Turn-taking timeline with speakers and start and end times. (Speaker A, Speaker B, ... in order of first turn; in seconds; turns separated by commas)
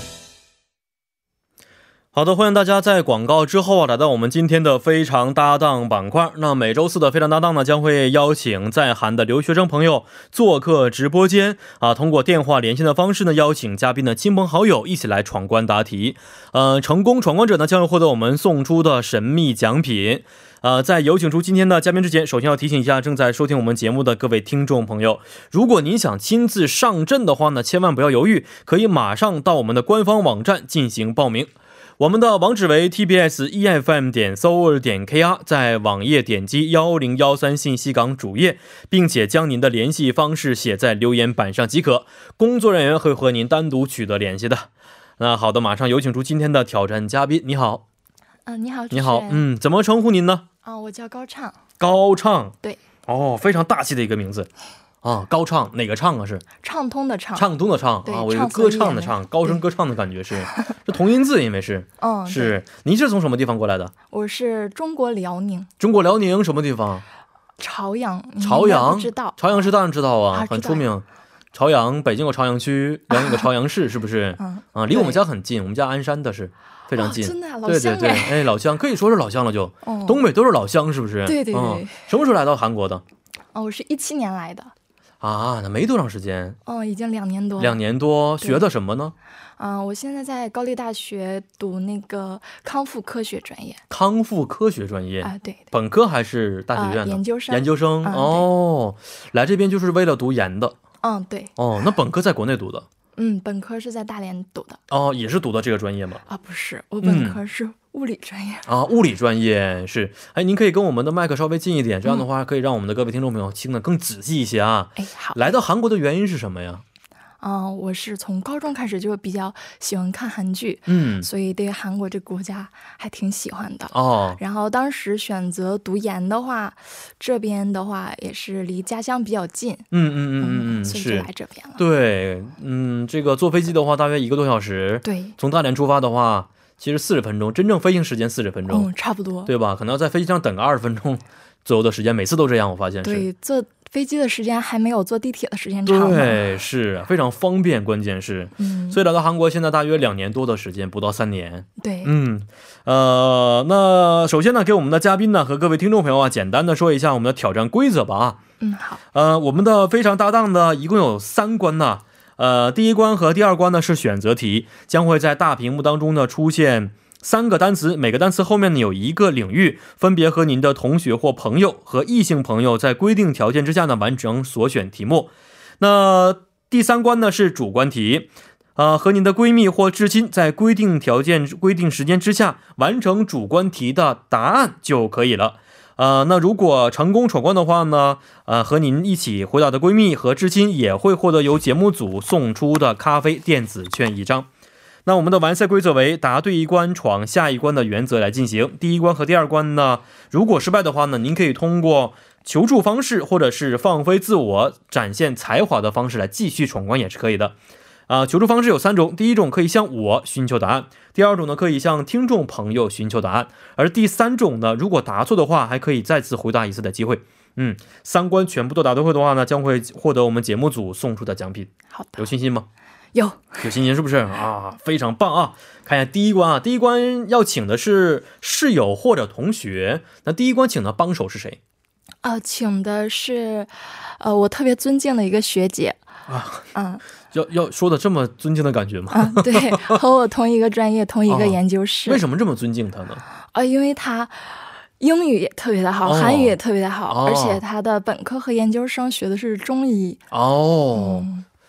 Speaker A: 2.1-47.8, Speaker B: 48.5-49.5, Speaker A: 48.9-50.4, Speaker B: 50.6-51.6, Speaker A: 51.8-52.5, Speaker A: 53.1-54.5, Speaker A: 55.0-56.4, Speaker B: 56.6-57.5, Speaker A: 57.4-63.9, Speaker B: 58.0-59.6, Speaker B: 62.0-62.6, Speaker B: 64.1-65.7, Speaker A: 65.8-67.0, Speaker B: 67.6-69.4, Speaker A: 68.4-83.0, Speaker B: 70.3-70.9, Speaker B: 73.1-73.5, Speaker B: 74.4-75.2, Speaker B: 77.0-78.5, Speaker B: 79.8-80.2, Speaker B: 81.2-82.0, Speaker B: 83.5-84.7, Speaker A: 85.2-86.6, Speaker B: 86.7-87.8, Speaker A: 87.6-89.1, Speaker B: 89.6-93.8, Speaker A: 93.9-100.8, Speaker B: 95.2-95.7, Speaker B: 96.7-98.5, Speaker B: 101.0-101.5, Speaker A: 101.6-102.9, Speaker B: 103.2-104.8, Speaker A: 104.9-106.2, Speaker B: 106.3-108.7, Speaker A: 107.0-107.4, Speaker A: 108.7-116.8, Speaker B: 115.0-115.6, Speaker B: 117.4-129.9, Speaker A: 120.9-121.3, Speaker A: 123.9-124.4, Speaker A: 129.9-138.9, Speaker B: 130.4-131.8, Speaker B: 135.0-135.3, Speaker B: 138.7-139.5, Speaker A: 139.4-143.3, Speaker B: 143.0-146.4, Speaker A: 145.8-158.4, Speaker B: 148.6-149.0, Speaker B: 151.8-152.1, Speaker B: 158.6-159.0, Speaker A: 159.1-194.5, Speaker A: 195.1-207.6, Speaker A: 208.1-222.7, Speaker B: 221.9-222.2, Speaker B: 223.1-223.6, Speaker A: 223.6-231.6, Speaker B: 232.2-236.0, Speaker A: 236.3-236.7, Speaker B: 236.7-237.0, Speaker A: 237.3-240.0, Speaker B: 239.1-242.2, Speaker A: 241.3-243.2, Speaker B: 243.5-250.2, Speaker A: 246.0-246.6, Speaker A: 247.1-247.6, Speaker A: 250.3-251.3, Speaker B: 250.9-251.4